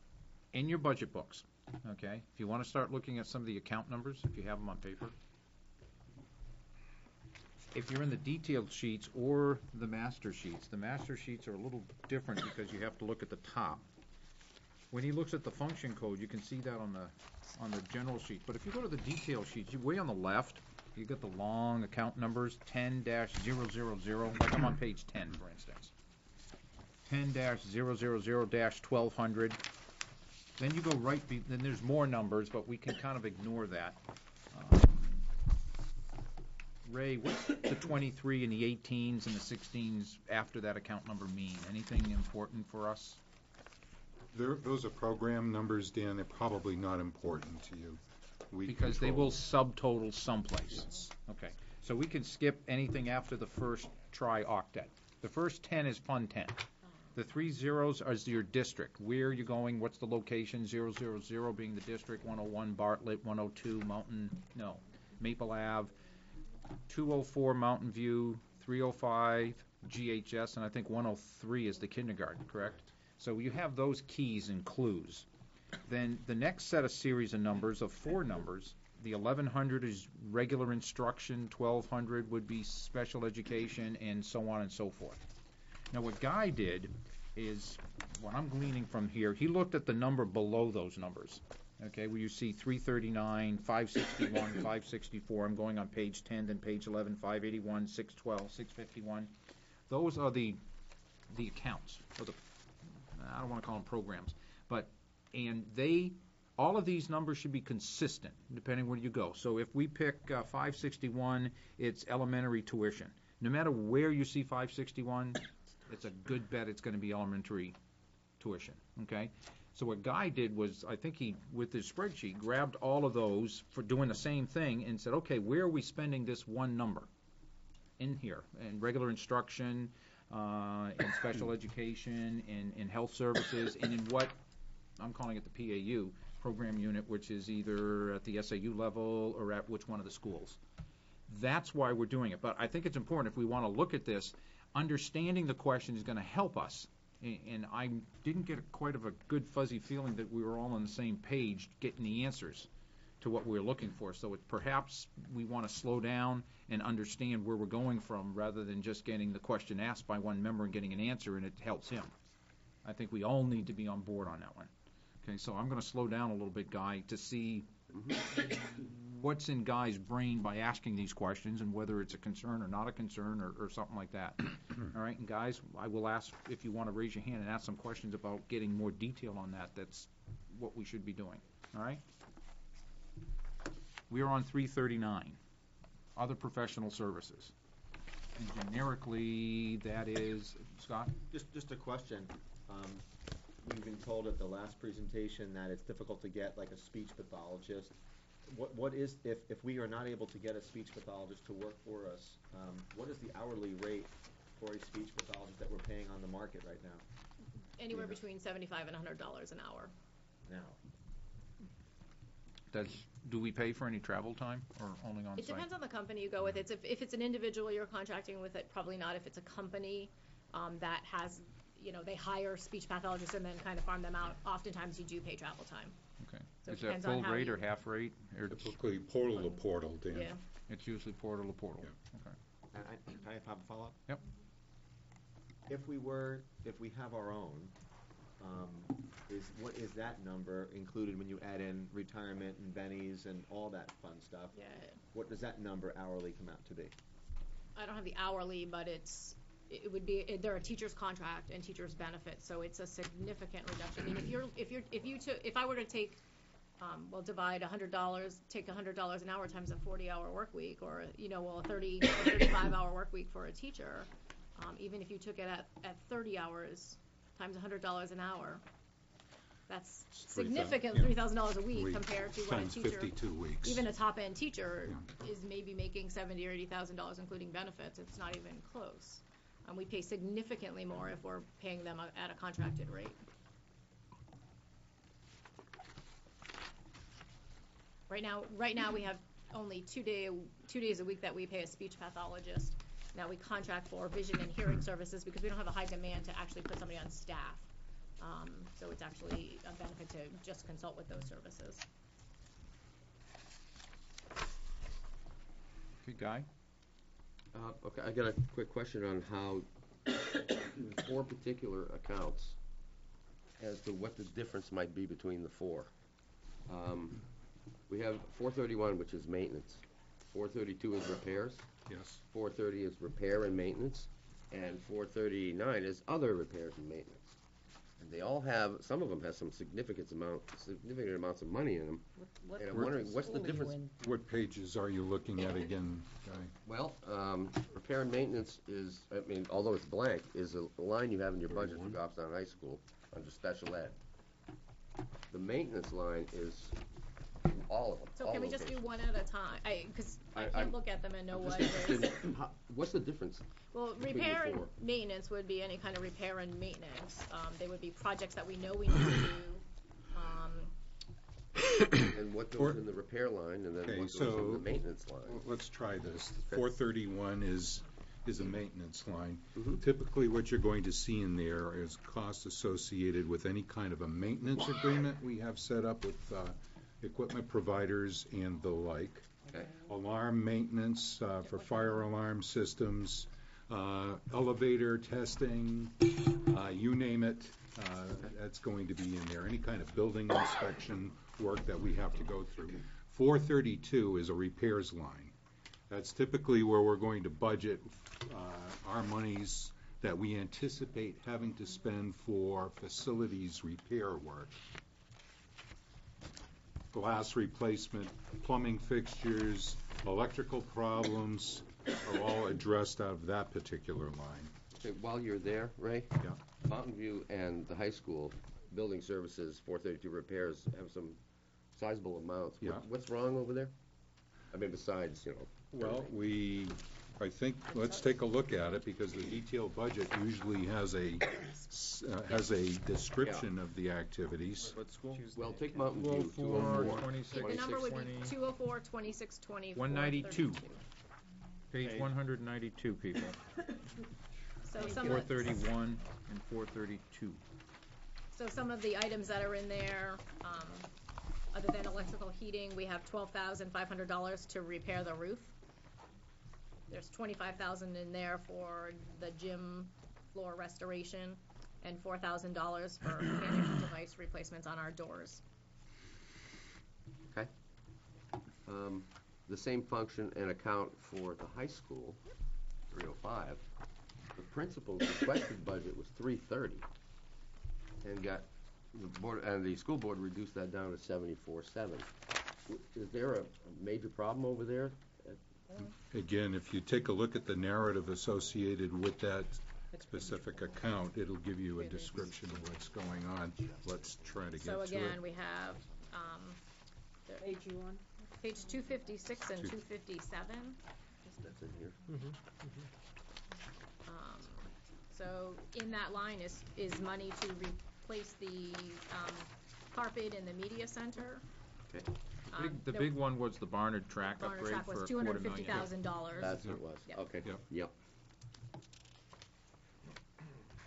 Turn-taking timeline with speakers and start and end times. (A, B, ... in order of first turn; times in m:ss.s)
0:00.5-0:05.2 A
0:07.7-0:13.8 A
0:14.9-0:25.9 A
0:27.1-0:29.6 A
0:30.6-0:34.0 A
0:34.5-0:35.2 A
0:36.8-0:43.2 A
0:44.3-0:49.5 B
0:48.7-0:56.6 A
0:57.2-1:05.9 A
1:06.9-1:15.3 A
1:15.8-1:25.2 A
1:25.9-1:39.3 A
1:39.9-1:40.6 A
1:41.3-1:42.4 A
1:43.1-1:57.8 A
1:58.4-2:07.1 A
2:08.0-2:14.4 A
2:15.0-2:20.6 A
2:21.3-2:32.7 A
2:33.2-2:42.1 A
2:42.8-2:44.7 A
2:45.2-2:47.7 A
2:47.9-2:48.2 C
2:49.0-3:02.0 A
3:04.1-3:05.4 A
3:06.2-3:07.5 A
3:08.4-3:11.2 A
3:11.3-3:13.0 D
3:13.6-3:27.0 D
3:27.8-3:29.9 E
3:27.9-3:28.2 D
3:30.5-3:30.8 D
3:32.7-3:35.7 A
3:35.4-3:46.0 E
3:46.2-3:48.8 A
3:46.6-3:47.6 E
3:48.5-3:50.3 B
3:49.3-3:50.4 E
3:50.7-3:52.4 A
3:52.7-3:54.0 D
3:55.7-3:57.7 D
3:58.4-4:04.6 D
4:04.6-4:05.0 E
4:05.1-4:06.9 D
4:07.8-4:16.2 E
4:16.8-4:28.6 E
4:29.7-4:43.2 E
4:30.1-4:33.9 B
4:48.1-4:57.7 E
4:58.2-5:01.8 E
5:06.0-5:06.5 A
5:07.5-5:09.7 C
5:10.7-5:12.6 C
5:13.6-5:15.9 C
5:16.7-5:17.2 C
5:17.9-5:21.7 C
5:21.9-5:22.2 B
5:22.3-5:27.4 C
5:28.0-5:33.8 C
5:32.2-5:33.9 F
5:32.7-5:36.5 B
5:36.6-5:44.0 C
5:45.3-5:46.8 C
5:47.5-5:48.9 C
5:48.2-5:52.2 E
5:50.3-5:50.8 C
5:51.3-5:53.4 C
5:53.7-6:00.7 E
5:54.0-5:54.8 C
6:02.1-6:05.4 C
6:02.5-6:02.8 B
6:03.8-6:35.4 B
6:06.5-6:06.8 C
6:09.6-6:09.8 C
6:19.5-6:19.8 C
6:35.9-6:44.6 B
6:46.9-6:54.6 B
6:54.7-7:01.2 C
7:01.7-7:03.7 C
7:02.6-7:02.9 B
7:04.5-7:05.7 C
7:05.7-7:14.8 B
7:13.2-7:13.5 C
7:14.8-7:15.3 D
7:15.3-7:17.8 C
7:16.0-7:18.4 A
7:17.3-7:20.8 E
7:19.8-7:20.6 A
7:21.7-7:23.4 A
7:21.8-7:22.1 D
7:24.7-7:25.6 E
7:24.8-7:25.3 F
7:24.8-7:27.4 A
7:28.3-7:30.9 E
7:31.5-7:35.6 E
7:36.9-7:45.4 E
7:48.7-7:52.2 C
7:52.9-7:53.6 C
7:54.4-7:56.9 C
7:58.0-8:02.1 C
8:02.7-8:05.4 C
8:06.1-8:15.3 B
8:11.8-8:12.3 E
8:14.6-8:16.6 E
8:17.4-8:18.0 F
8:18.4-8:20.8 E
8:21.2-8:22.0 C
8:24.1-8:31.4 E
8:32.5-8:33.2 E
8:32.6-8:35.9 A
8:34.3-8:37.2 E
8:36.4-8:37.9 C
8:36.4-8:36.8 B